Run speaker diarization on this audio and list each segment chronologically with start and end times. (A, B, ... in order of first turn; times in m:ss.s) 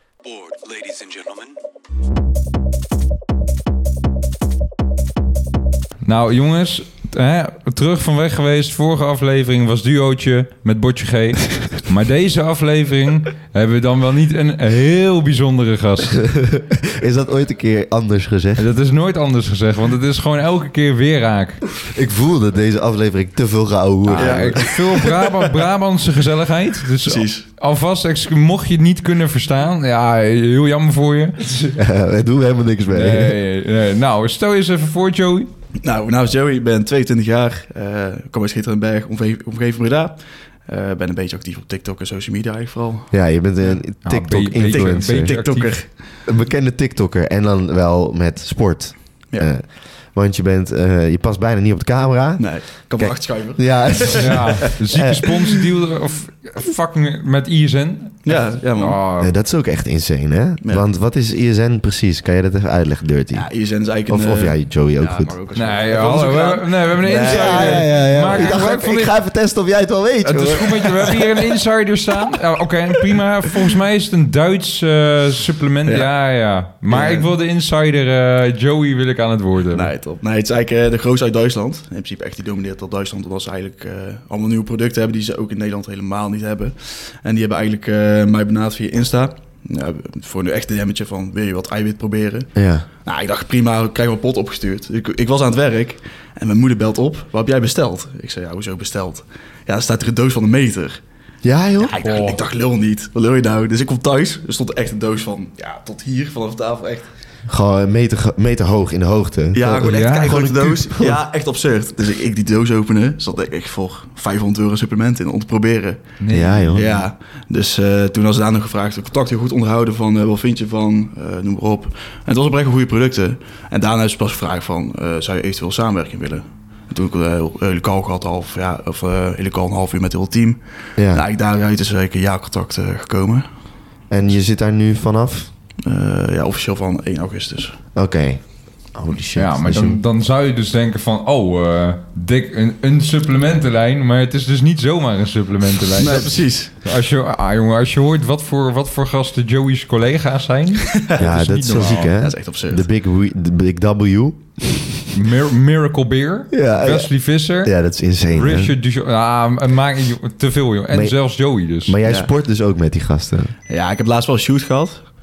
0:06.0-0:16.3 A
0:16.2-0:18.7 B
0:18.6-0:21.7 A
0:21.8-0:24.6 B
0:24.0-0:31.6 A
0:24.2-0:25.5 C
0:27.0-0:27.4 C
0:31.7-0:33.4 B
0:32.9-0:35.5 A
0:35.8-0:43.8 C
0:43.1-0:45.4 B
0:44.0-0:45.8 A
0:44.6-0:45.9 C
0:46.2-0:55.3 B
0:52.4-0:54.8 C
0:54.2-0:59.3 A
0:58.2-0:59.0 C
0:59.2-1:03.5 B
1:03.3-1:08.5 C
1:04.1-1:05.3 B
1:05.5-1:09.2 A
1:07.1-1:10.9 B
1:10.2-1:11.5 C
1:10.3-1:19.9 A
1:15.8-1:16.1 C
1:16.8-1:17.3 C
1:19.7-1:32.5 C
1:32.5-1:32.8 B
1:33.0-1:41.0 C
1:41.4-1:41.9 B
1:41.8-1:47.1 C
1:42.0-1:42.4 A
1:47.5-1:51.2 B
1:49.5-1:56.1 C
1:49.8-1:50.4 A
1:56.2-1:57.0 A
1:56.3-1:56.9 B
1:56.7-2:13.5 C
2:11.0-2:11.2 B
2:14.1-2:15.5 B
2:15.8-2:17.8 C
2:17.9-2:20.0 B
2:19.3-2:32.1 A
2:26.0-2:26.8 C
2:30.8-2:32.9 C
2:31.2-2:35.1 B
2:35.1-2:37.7 A
2:36.5-2:38.7 B
2:38.3-2:42.0 A
2:40.9-2:41.2 B
2:41.8-2:43.5 B
2:42.0-2:42.3 C
2:43.7-2:45.0 C